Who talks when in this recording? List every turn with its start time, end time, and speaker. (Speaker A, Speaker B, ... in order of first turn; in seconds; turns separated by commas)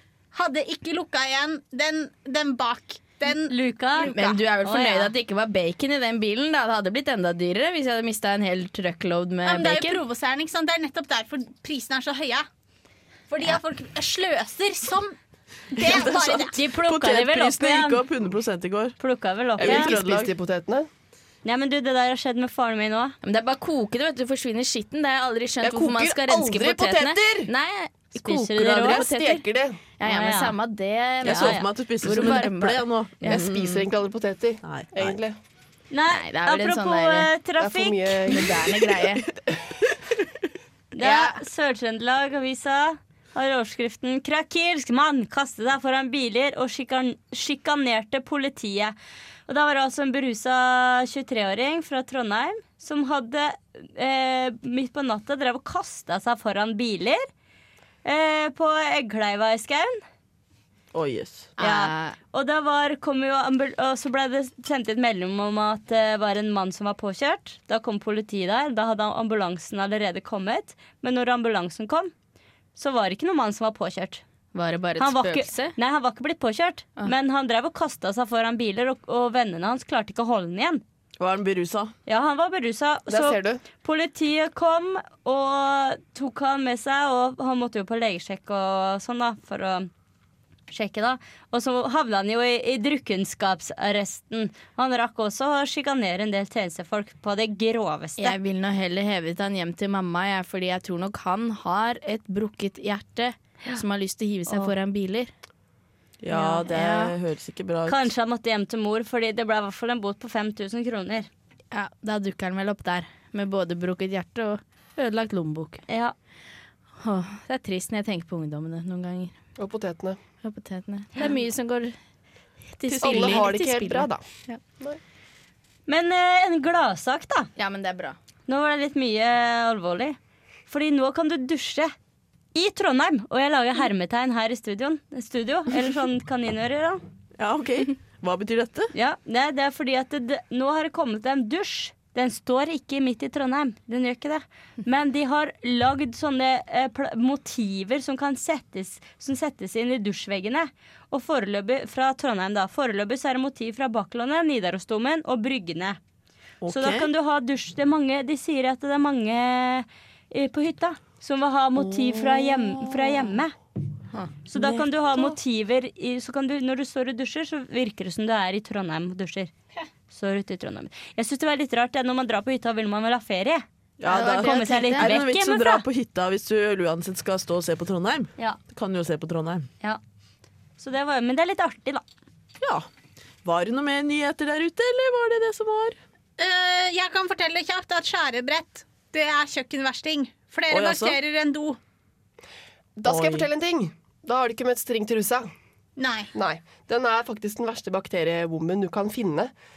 Speaker A: 0.3-4.4, Speaker B: 3.3-4.1, Speaker C: 4.1-10.0, Speaker B: 4.6-5.1, Speaker A: 9.4-12.4, Speaker A: 13.3-15.2, Speaker A: 15.7-16.6, Speaker D: 15.8-19.0, Speaker B: 16.5-18.0, Speaker B: 19.0-19.9, Speaker D: 19.6-20.3, Speaker E: 19.6-20.9, Speaker B: 21.4-23.1, Speaker C: 23.2-29.4, Speaker E: 25.6-27.5, Speaker B: 28.2-29.0, Speaker E: 28.6-29.8, Speaker C: 30.0-33.4, Speaker B: 30.0-30.5, Speaker D: 31.2-33.9, Speaker B: 31.2-31.7, Speaker E: 33.3-35.4, Speaker D: 34.6-35.1, Speaker B: 35.9-38.3, Speaker C: 36.1-37.3, Speaker E: 37.6-39.0, Speaker C: 38.3-39.2, Speaker B: 40.9-48.9, Speaker C: 41.0-41.4, Speaker B: 49.5-57.3, Speaker B: 58.0-60.0, Speaker D: 60.9-61.5, Speaker C: 61.6-62.1, Speaker B: 61.6-72.1, Speaker B: 72.8-74.2, Speaker C: 74.5-75.7, Speaker B: 75.0-80.8, Speaker D: 81.2-81.9, Speaker B: 82.1-89.9, Speaker E: 83.1-83.6, Speaker B: 90.7-98.3, Speaker C: 98.2-105.3, Speaker D: 106.2-108.1, Speaker C: 106.3-107.1, Speaker B: 107.9-111.3, Speaker C: 111.7-115.8, Speaker B: 115.9-116.1, Speaker C: 117.0-119.3, Speaker E: 119.6-120.2, Speaker C: 120.4-122.0, Speaker C: 122.7-124.6, Speaker D: 122.9-123.5, Speaker E: 123.0-124.2, Speaker B: 125.9-127.5, Speaker C: 127.5-128.2, Speaker B: 128.5-130.2, Speaker B: 130.7-131.9, Speaker B: 132.5-137.0, Speaker D: 137.4-138.9, Speaker B: 138.9-156.0, Speaker D: 156.6-157.1, Speaker B: 156.7-163.5, Speaker D: 161.9-162.9, Speaker B: 164.5-169.5, Speaker B: 170.1-175.8, Speaker D: 174.0-179.7, Speaker C: 174.1-175.1, Speaker B: 180.8-182.0, Speaker D: 182.6-182.9, Speaker D: 183.4-186.0, Speaker A: 186.4-191.8, Speaker D: 190.7-191.2, Speaker E: 193.0-195.5, Speaker D: 193.1-193.5, Speaker A: 196.0-196.3, Speaker E: 196.3-199.5